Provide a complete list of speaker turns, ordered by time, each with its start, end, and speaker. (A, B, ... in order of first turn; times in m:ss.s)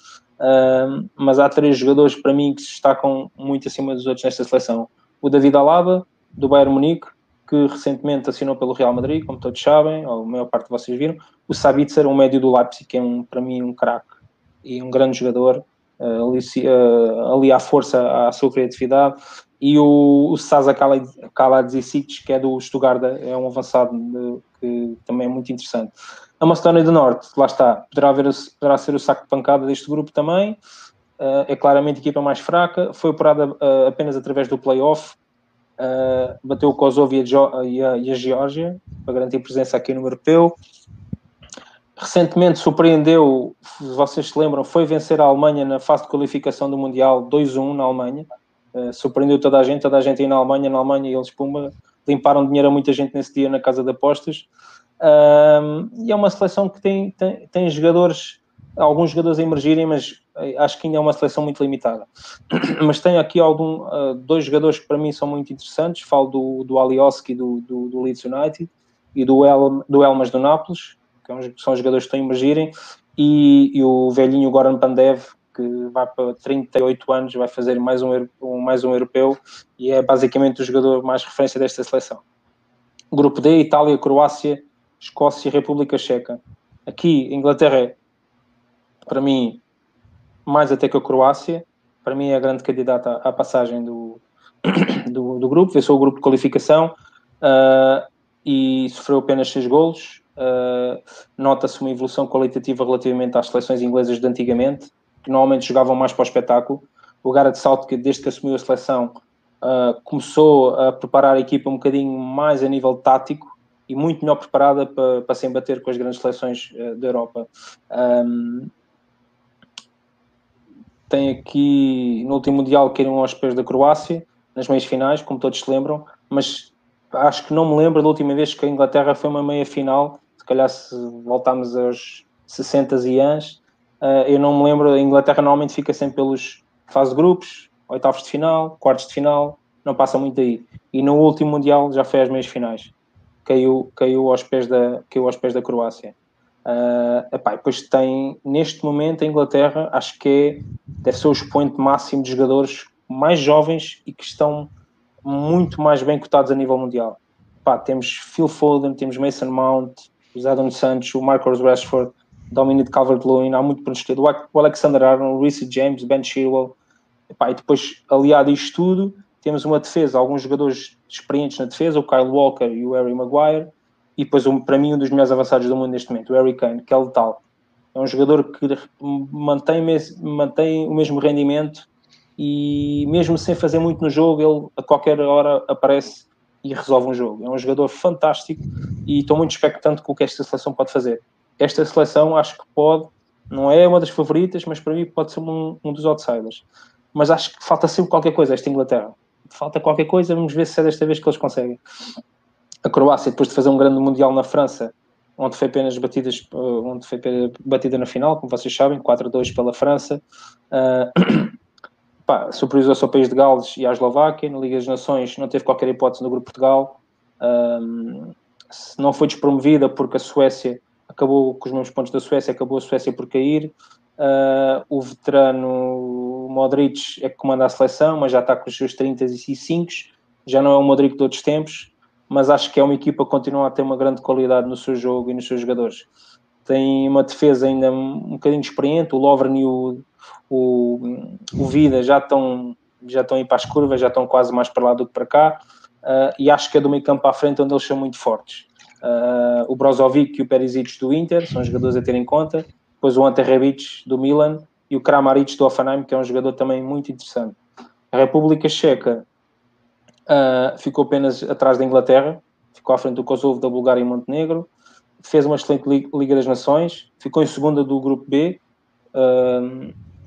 0:00.4-0:30.6 A
0:31.2-0:35.2 A
0:35.8-0:40.5 A
0:42.0-0:54.5 A
0:55.0-1:22.2 A
1:23.1-1:28.0 A
1:29.1-1:29.6 A
1:30.5-1:58.7 A
2:01.1-2:22.9 A
2:23.4-2:26.2 A
2:26.7-2:34.7 A
2:35.2-2:46.8 A
2:47.3-2:57.4 A
2:57.9-3:01.9 A
3:02.4-3:21.8 A
3:22.8-3:31.6 A
3:32.3-3:56.1 A
3:56.7-4:17.6 A
4:18.1-4:19.2 A
4:20.3-4:24.7 A
4:25.2-4:28.6 A
4:29.2-4:29.9 A